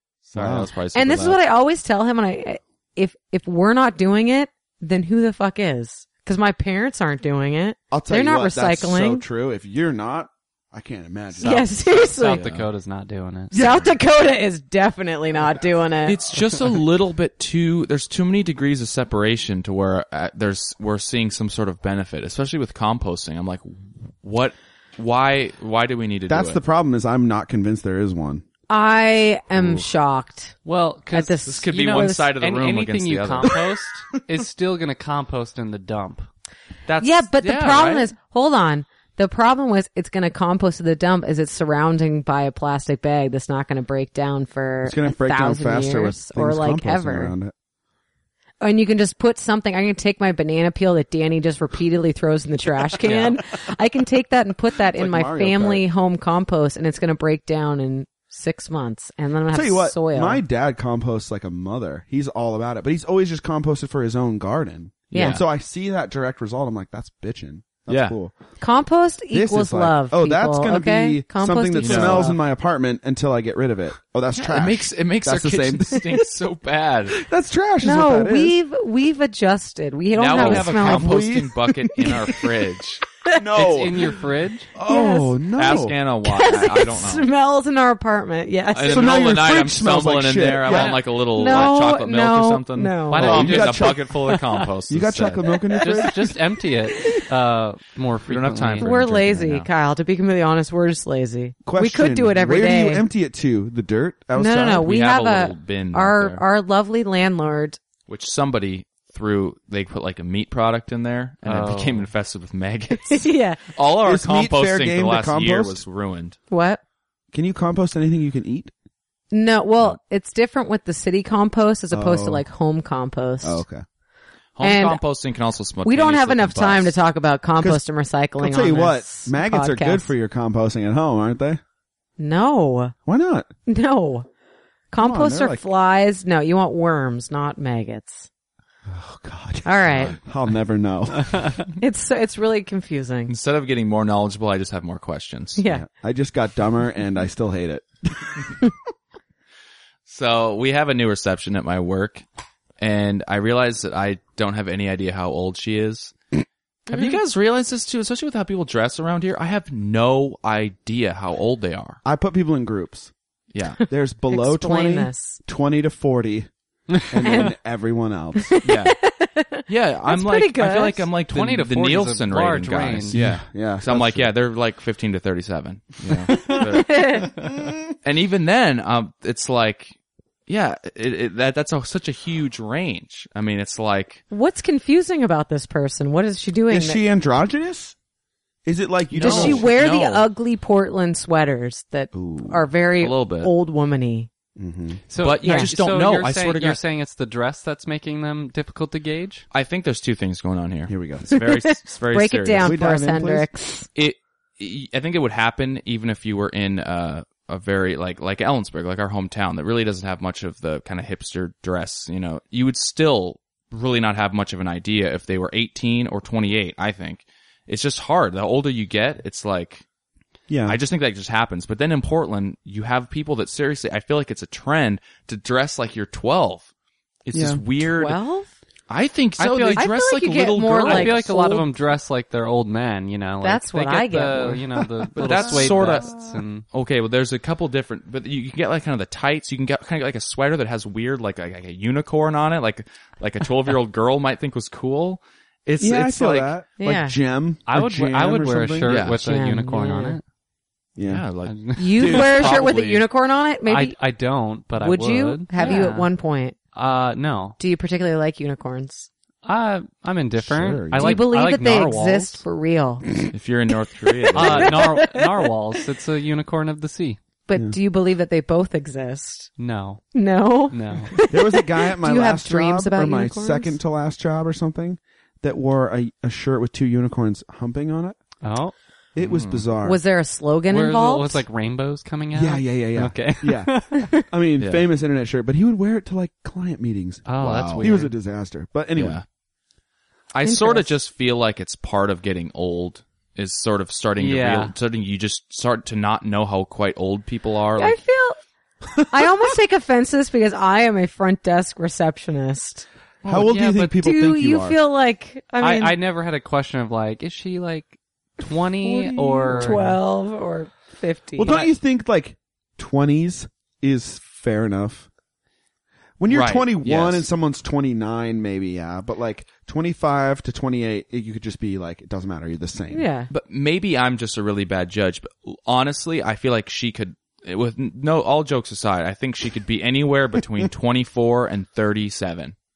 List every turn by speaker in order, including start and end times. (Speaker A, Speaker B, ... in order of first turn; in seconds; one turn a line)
Speaker A: 0.3-1.4
Speaker B: 0.3-0.7
Speaker C: 0.9-9.2
Speaker B: 7.9-11.8
Speaker C: 11.4-12.4
Speaker D: 11.4-13.8
Speaker A: 12.4-12.7
Speaker C: 13.5-16.2
Speaker B: 13.6-13.9
Speaker A: 16.1-26.6
Speaker B: 26.3-28.4
Speaker C: 28.7-30.6
Speaker D: 30.6-36.3
Speaker C: 31.1-32.3
Speaker A: 31.5-33.7
Speaker A: 36.9-38.1
Speaker C: 37.0-47.4
Speaker B: 44.8-47.5
Speaker C: 48.6-60.4
Speaker D: 53.0-53.4
Speaker B: 55.0-55.9
Speaker B: 59.5-68.3
Speaker C: 65.1-65.4
Speaker A: 65.1-65.4
Speaker A: 67.9-68.2
Speaker C: 68.6-72.4
Speaker B: 69.3-76.3
Speaker A: 71.8-72.3
Speaker A: 74.3-77.2
Speaker B: 77.1-78.6
Speaker C: 77.8-81.2
Speaker A: 80.2-83.0
Speaker B: 80.3-82.2
Speaker B: 83.4-84.2
Speaker D: 83.5-84.7
Speaker B: 84.8-86.0
Speaker C: 84.9-85.4
Speaker A: 85.6-87.3
Speaker C: 86.2-89.1
Speaker A: 88.7-95.5
Speaker B: 88.9-91.0
Speaker D: 90.7-91.0
Speaker C: 91.3-93.5
Speaker D: 93.1-94.4
Speaker B: 93.2-94.2
Speaker B: 94.9-96.4
Speaker D: 95.8-99.0
Speaker A: 98.3-99.7
Speaker C: 98.8-103.0
Speaker B: 101.7-104.9
Speaker C: 104.3-107.8
Speaker A: 104.8-106.4
Speaker A: 108.1-116.4
Speaker D: 111.4-112.1
Speaker C: 112.9-113.6
Speaker B: 114.0-115.8
Speaker C: 116.5-116.8
Speaker B: 117.3-118.7
Speaker C: 119.3-123.6
Speaker B: 121.9-122.4
Speaker B: 123.4-123.8
Speaker A: 124.6-127.0
Speaker C: 124.6-125.0
Speaker C: 125.8-130.1
Speaker B: 128.4-131.6
Speaker C: 132.2-132.9
Speaker B: 133.1-133.5
Speaker C: 133.7-134.3
Speaker C: 134.9-138.3
Speaker B: 135.0-135.6
Speaker B: 138.9-141.5
Speaker C: 139.7-140.2
Speaker C: 141.8-143.3
Speaker A: 143.3-145.6
Speaker C: 145.6-145.8
Speaker B: 145.7-148.5
Speaker A: 150.1-152.2
Speaker A: 152.8-156.2
Speaker A: 156.9-162.0
Speaker B: 162.0-163.1
Speaker A: 163.5-163.8
Speaker B: 163.9-166.5
Speaker C: 164.3-165.4
Speaker B: 167.1-168.6
Speaker C: 167.2-167.5
Speaker C: 168.4-171.1
Speaker A: 168.6-169.0
Speaker A: 169.7-177.5
Speaker D: 171.3-173.2
Speaker B: 173.1-174.3
Speaker C: 176.4-177.4
Speaker A: 178.0-179.9
Speaker A: 180.5-184.2
Speaker C: 184.3-187.0
Speaker B: 186.7-187.9
Speaker B: 188.7-189.7
Speaker A: 189.1-190.2
Speaker C: 189.2-194.3
Speaker B: 192.1-192.7
Speaker A: 193.0-193.5
Speaker B: 194.6-195.0
Speaker D: 195.1-199.5
Speaker A: 195.2-196.8
Speaker C: 195.4-195.7
Speaker A: 199.5-202.8
Speaker B: 200.9-201.3
Speaker C: 201.3-203.9
Speaker B: 202.6-203.5
Speaker A: 203.9-219.8
Speaker B: 220.5-220.8
Speaker A: 220.7-226.7
Speaker A: 227.3-228.2
Speaker B: 227.3-227.6
Speaker C: 227.9-228.5
Speaker A: 228.9-231.3
Speaker D: 229.4-229.9
Speaker C: 229.8-231.7
Speaker D: 230.8-236.7
Speaker C: 233.4-234.7
Speaker A: 235.1-236.2
Speaker B: 235.4-235.9
Speaker A: 236.7-246.5
Speaker B: 245.8-249.0
Speaker C: 246.8-247.2
Speaker D: 247.7-250.2
Speaker A: 248.8-249.2
Speaker C: 249.2-250.2
Speaker B: 251.0-251.3
Speaker A: 251.0-253.0
Speaker D: 251.4-252.7
Speaker C: 251.8-254.0
Speaker D: 253.7-256.1
Speaker C: 254.8-256.6
Speaker A: 255.6-255.9
Speaker D: 256.7-257.6
Speaker C: 257.6-259.1
Speaker D: 259.4-262.4
Speaker B: 260.4-261.3
Speaker C: 261.0-263.1
Speaker A: 263.3-264.9
Speaker D: 264.3-267.2
Speaker C: 264.4-265.4
Speaker C: 267.5-269.5
Speaker D: 269.6-270.0
Speaker C: 270.1-273.8
Speaker D: 270.7-271.1
Speaker B: 271.3-278.2
Speaker D: 278.4-278.7
Speaker B: 279.1-280.0
Speaker A: 279.2-279.7
Speaker C: 279.8-281.4
Speaker D: 280.7-284.1
Speaker B: 282.3-289.2
Speaker A: 284.6-284.9
Speaker D: 287.3-288.1
Speaker A: 287.4-288.0
Speaker A: 289.0-289.2
Speaker A: 290.3-298.0
Speaker C: 290.4-290.9
Speaker D: 294.2-294.7
Speaker C: 297.8-298.4
Speaker C: 299.1-302.9
Speaker D: 303.2-304.0
Speaker B: 303.2-304.8
Speaker C: 304.0-306.0
Speaker D: 305.6-309.9
Speaker B: 308.8-310.0
Speaker C: 309.5-311.6
Speaker B: 311.4-315.1
Speaker B: 316.2-323.1
Speaker A: 316.3-317.3
Speaker C: 322.9-323.3
Speaker A: 323.3-332.6